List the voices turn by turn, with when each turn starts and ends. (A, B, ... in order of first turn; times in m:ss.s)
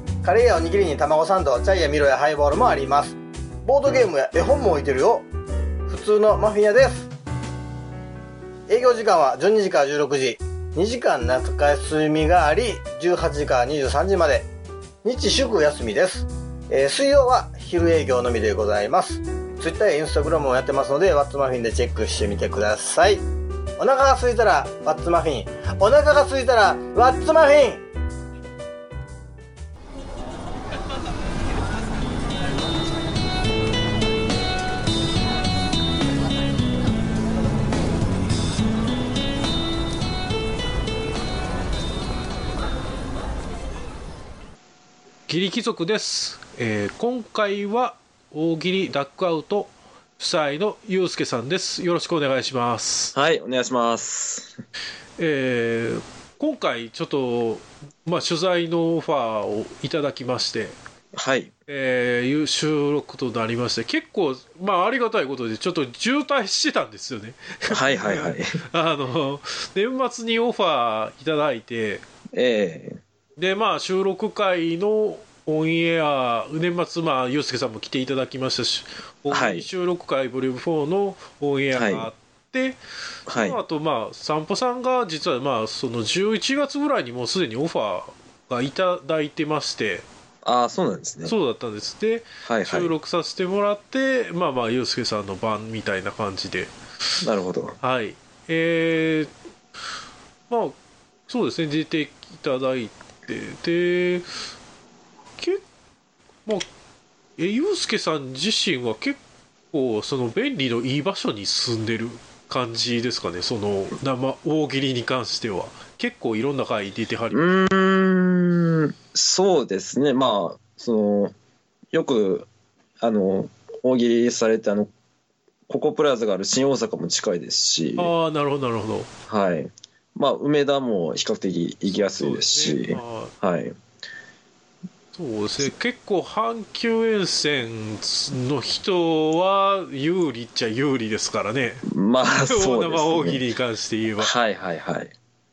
0:00.2-0:05.3 A
0:05.9-0:07.1 A
0:08.7-0:14.5 A
0:15.0-0:23.2 A
0:23.8-0:27.8 A
0:45.3-0:53.1 B
0:53.1-0:54.5 C
0:55.2-1:00.8 B
1:01.1-1:01.5 C
1:01.7-1:12.0 B
1:07.7-1:08.6 C
1:12.3-1:13.0 C
1:13.4-1:30.0 B
1:19.3-1:19.7 C
1:21.7-1:22.1 C
1:23.3-1:23.6 C
1:30.4-1:31.3 C
1:31.2-1:36.7 B
1:32.4-1:33.0 C
1:37.2-1:37.8 C
1:37.8-1:39.3 B
1:40.5-1:44.3 B
1:45.4-1:45.6 B
1:47.4-1:49.2 B
1:49.7-1:57.4 B
1:57.3-2:01.3 C
2:01.9-2:02.5 C
2:03.0-2:04.9 C
2:05.7-2:08.1 C
2:08.0-2:09.1 B
2:09.3-2:13.7 C
2:12.0-2:13.3 B
2:15.1-2:21.8 B
2:21.8-2:23.4 C
2:22.4-2:24.3 B
2:24.2-2:25.1 C